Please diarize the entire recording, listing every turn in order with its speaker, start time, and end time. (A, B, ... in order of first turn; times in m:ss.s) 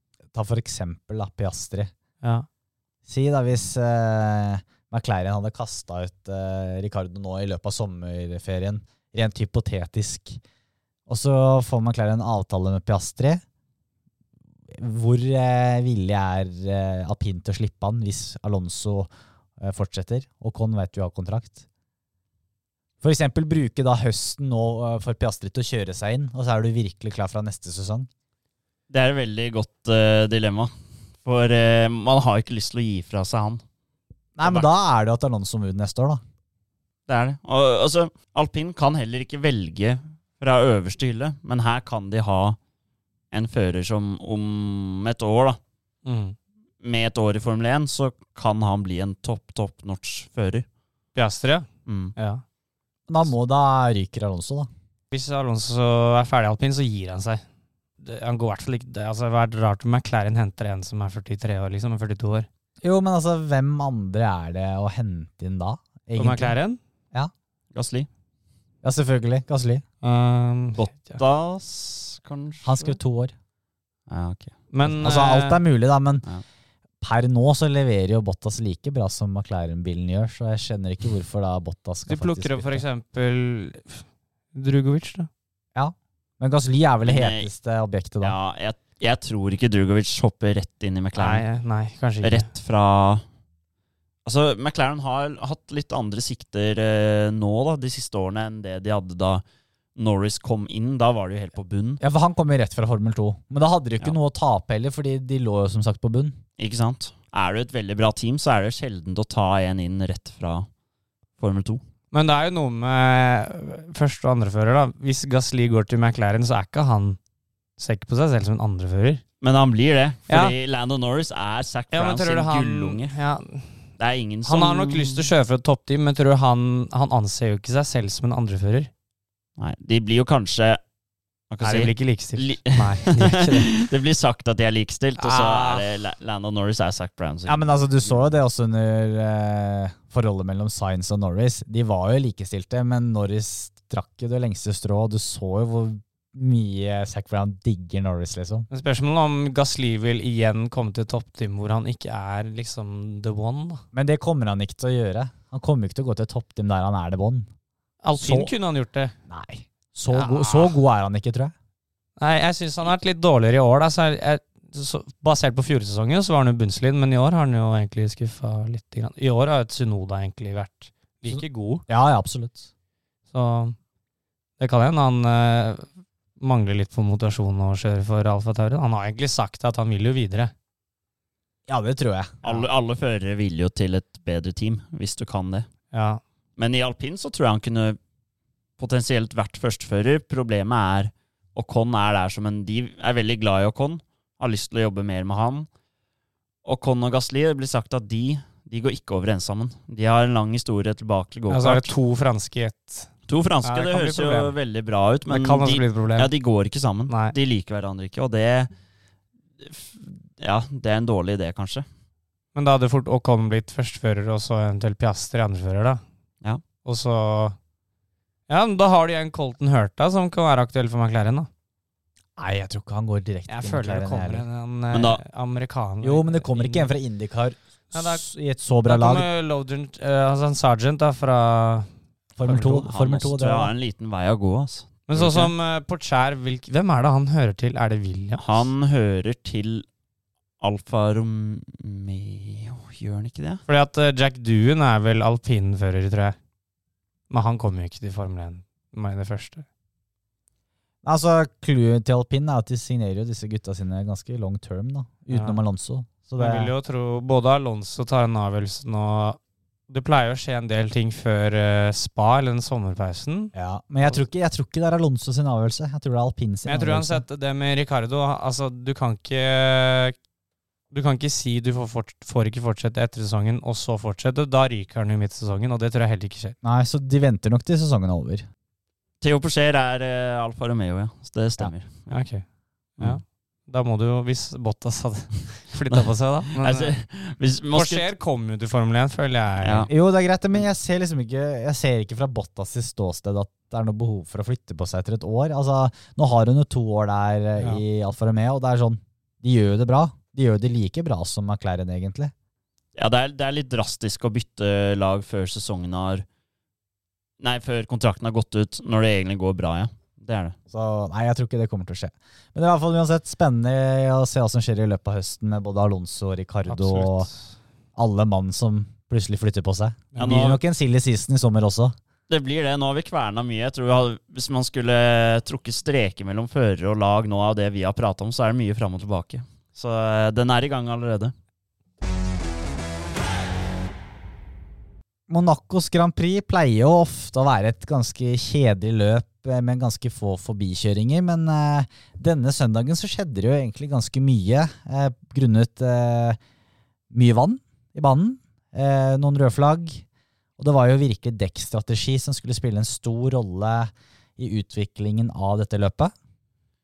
0:00.3-0:01.9 A
0:02.2-0:02.5 B
0:03.1-0:10.4 A
0:11.1-0:13.4 A
0:14.7-0:21.6 A
0:23.0-0:28.1 A
0:28.9-0:33.6 C
0:34.4-0:36.2 A
0:34.4-0:34.7 C
0:37.1-0:42.6 C
0:43.3-0:45.6 C
0:46.0-0:46.4 B
0:46.8-0:50.7 C
0:51.2-0:52.4 B
0:51.9-0:52.1 C
0:53.1-0:54.7 A
0:55.1-0:57.4 B
0:58.0-1:02.5 B
1:02.8-1:06.6 A
1:06.2-1:06.8 B
1:07.7-1:08.1 C
1:08.8-1:09.8 A
1:10.0-1:11.2 B
1:10.8-1:13.0 C
1:12.6-1:13.3 A
1:14.1-1:14.5 C
1:14.7-1:15.6 B
1:14.8-1:16.3 A
1:17.0-1:22.8 A
1:22.1-1:25.3 B
1:25.8-1:28.4 A
1:27.1-1:27.5 C
1:28.2-1:31.4 C
1:31.2-1:32.5 B
1:32.2-1:33.2 C
1:34.2-1:39.4 C
1:40.0-1:42.0 C
1:42.0-1:46.4 A
1:46.6-1:50.7 C
1:51.4-1:51.8 C
1:52.1-1:57.2 B
1:57.8-1:59.2 B
1:59.4-2:03.2 C
2:00.3-2:00.5 B
2:01.9-2:03.9 B
2:04.0-2:05.3 C
2:04.4-2:08.9 B
2:09.6-2:10.8 C
2:11.5-2:18.3 C
2:11.6-2:13.7 B
2:15.2-2:15.8 B
2:17.5-2:28.7 A
2:28.7-2:33.8 B
2:33.9-2:37.5 A
2:38.0-2:39.2 B
2:38.2-2:38.5 A
2:39.3-2:41.5 A
2:40.1-2:40.8 B
2:42.2-2:51.8 B
2:51.3-2:52.7 A
2:53.3-2:53.8 B
2:54.6-2:55.9 B
2:56.4-3:00.5 B
3:01.7-3:02.6 A
3:02.4-3:05.7 C
3:05.9-3:06.2 B
3:06.6-3:08.0 C
3:08.8-3:15.7 C
3:16.6-3:21.9 C
3:21.5-3:23.1 B
3:23.3-3:28.7 C
3:23.6-3:24.6 B
3:25.3-3:26.3 B
3:27.1-3:27.4 B
3:29.6-3:31.8 C
3:32.6-3:36.0 B
3:36.8-3:37.6 B
3:38.5-3:41.5 B
3:42.4-3:44.5 A
3:43.5-3:46.9 B
3:44.9-3:45.2 C
3:46.0-3:49.3 A
3:47.9-3:48.2 B
3:48.8-3:51.9 B
3:52.4-3:53.7 A
3:52.4-3:52.9 B
3:52.9-3:55.5 C
3:55.1-3:58.7 B
3:58.4-3:59.9 C
4:00.6-4:03.6 C
4:03.7-4:06.4 B
4:07.3-4:09.7 B
4:11.0-4:16.7 A
4:15.3-4:15.6 B
4:16.4-4:23.5 B
4:23.5-4:27.2 A
4:26.6-4:30.2 B
4:30.9-4:36.6 B
4:36.6-4:38.4 A
4:39.2-4:42.2 C
4:42.1-4:42.4 B
4:43.0-4:46.9 B
4:45.9-4:48.1 C
4:47.7-4:49.9 B
4:49.6-4:49.9 C
4:49.9-5:02.3 A
5:03.0-5:06.2 C
5:07.4-5:10.6 C
5:10.7-5:17.3 A
5:16.7-5:17.5 B
5:18.0-5:22.0 A
5:20.1-5:20.6 B
5:20.2-5:20.6 C
5:22.3-5:31.3 C
5:35.3-5:46.4 A
5:47.1-5:50.0 A
5:50.6-5:56.1 A